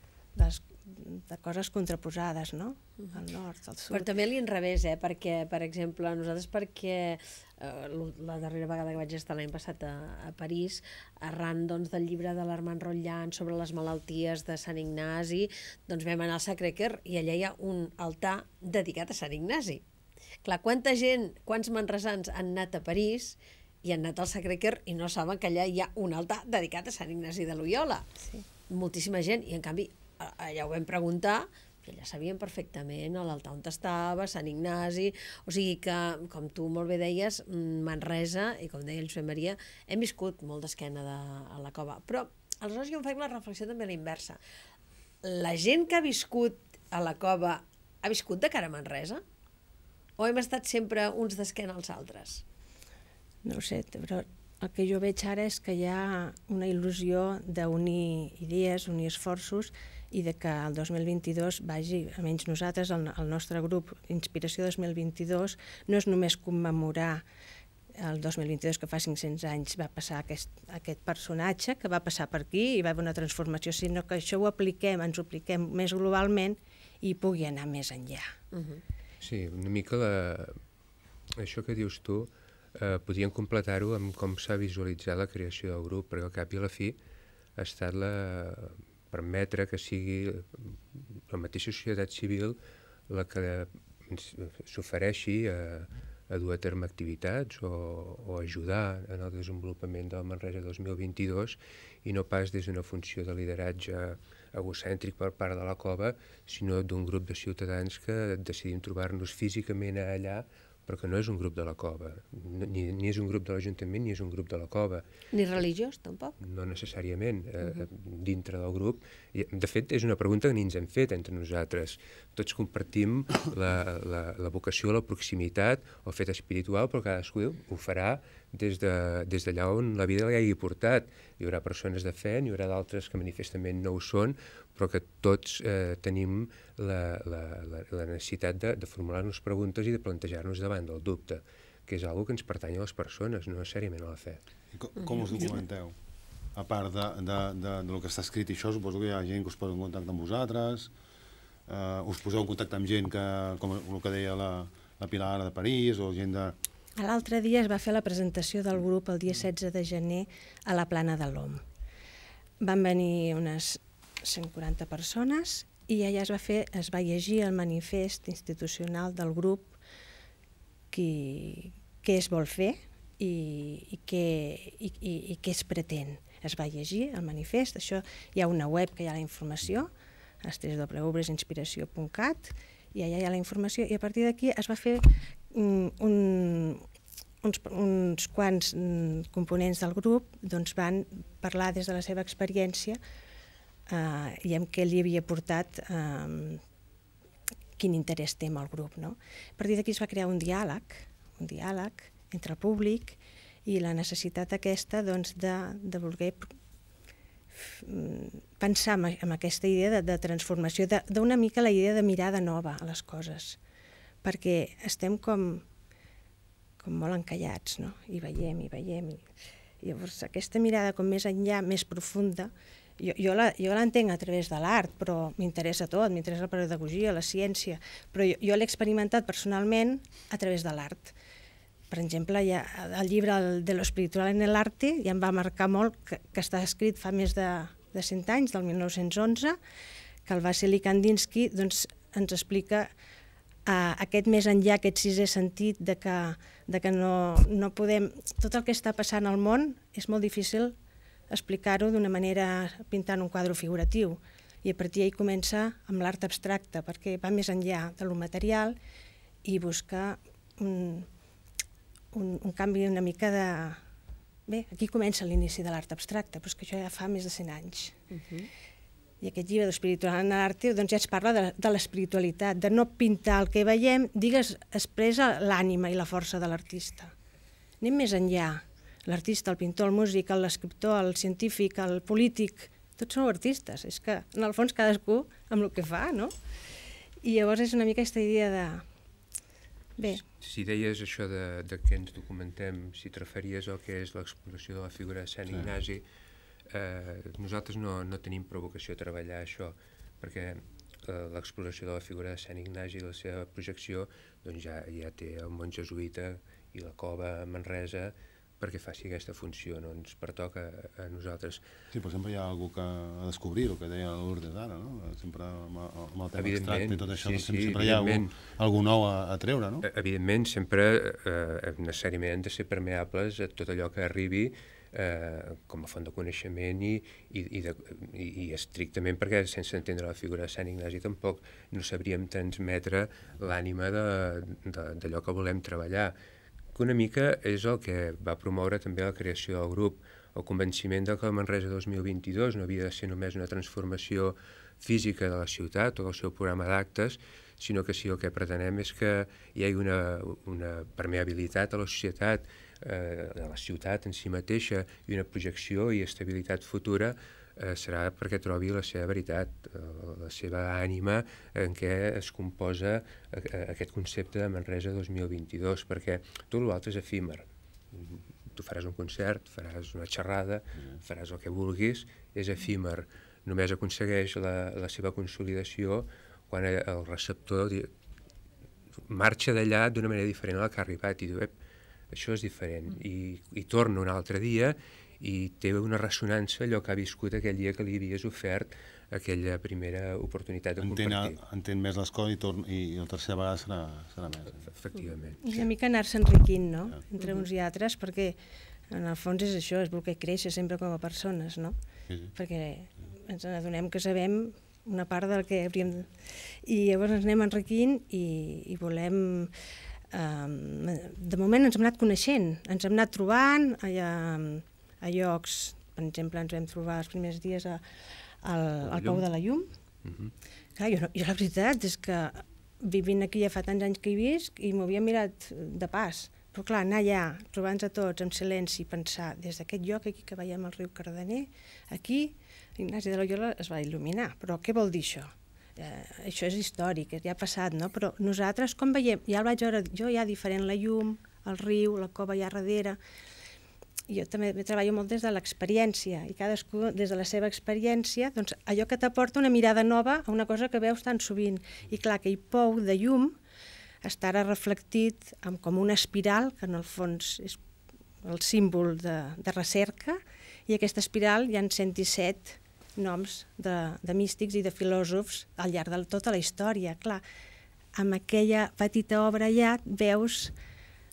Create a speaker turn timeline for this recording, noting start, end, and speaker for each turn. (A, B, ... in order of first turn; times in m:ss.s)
0:00.3-0:04.1 A
0:03.9-0:19.8 B
0:20.4-0:28.1 B
0:28.7-0:44.4 B
0:45.2-0:49.2 B
0:50.2-0:52.4 B
0:53.4-1:07.2 A
1:08.0-1:18.3 A
1:18.5-1:18.8 B
1:19.2-1:20.6 C
1:21.4-1:27.0 C
1:27.6-1:32.6 C
1:33.1-1:55.0 C
1:55.3-1:56.4 B
1:56.4-2:24.4 C
2:24.7-2:25.9 D
2:25.0-2:25.6 B
2:26.5-2:30.9 D
2:31.7-2:36.6 D
2:37.0-2:41.6 A
2:42.6-2:49.8 A
2:50.9-2:59.9 A
3:00.4-3:06.8 A
3:07.4-3:13.0 A
3:13.9-3:16.6 A
3:17.8-3:26.5 A
3:27.6-3:33.6 A
3:34.2-3:35.6 A
3:36.8-3:39.2 A
3:39.8-3:51.1 A
3:51.9-3:59.6 A
4:00.2-4:02.9 A
4:03.6-4:10.7 A
4:11.3-4:18.7 A
4:19.4-4:21.0 A
4:22.1-4:23.8 A
4:24.5-4:28.0 A
4:28.1-4:28.5 B
4:29.2-4:37.1 A
4:37.8-4:46.3 A
4:47.2-4:48.8 A
4:50.2-4:56.0 C
4:56.7-5:11.6 C
5:11.9-5:19.8 D
5:16.4-5:18.4 C
5:19.8-5:36.1 C
5:36.7-6:17.9 C
6:19.1-6:21.5 C
6:22.1-6:31.4 C
6:30.8-6:34.7 D
6:34.6-6:35.4 C
6:35.4-6:38.4 A
6:37.2-6:37.4 B
6:38.9-6:41.8 A
6:42.4-6:49.5 A
6:50.1-6:57.8 A
6:58.4-6:59.7 A
6:58.9-6:59.2 C
7:00.0-7:00.3 C
7:00.8-7:23.0 A
7:24.1-7:33.4 A
7:34.0-7:37.6 A
7:38.2-7:47.2 A
7:47.9-7:50.5 A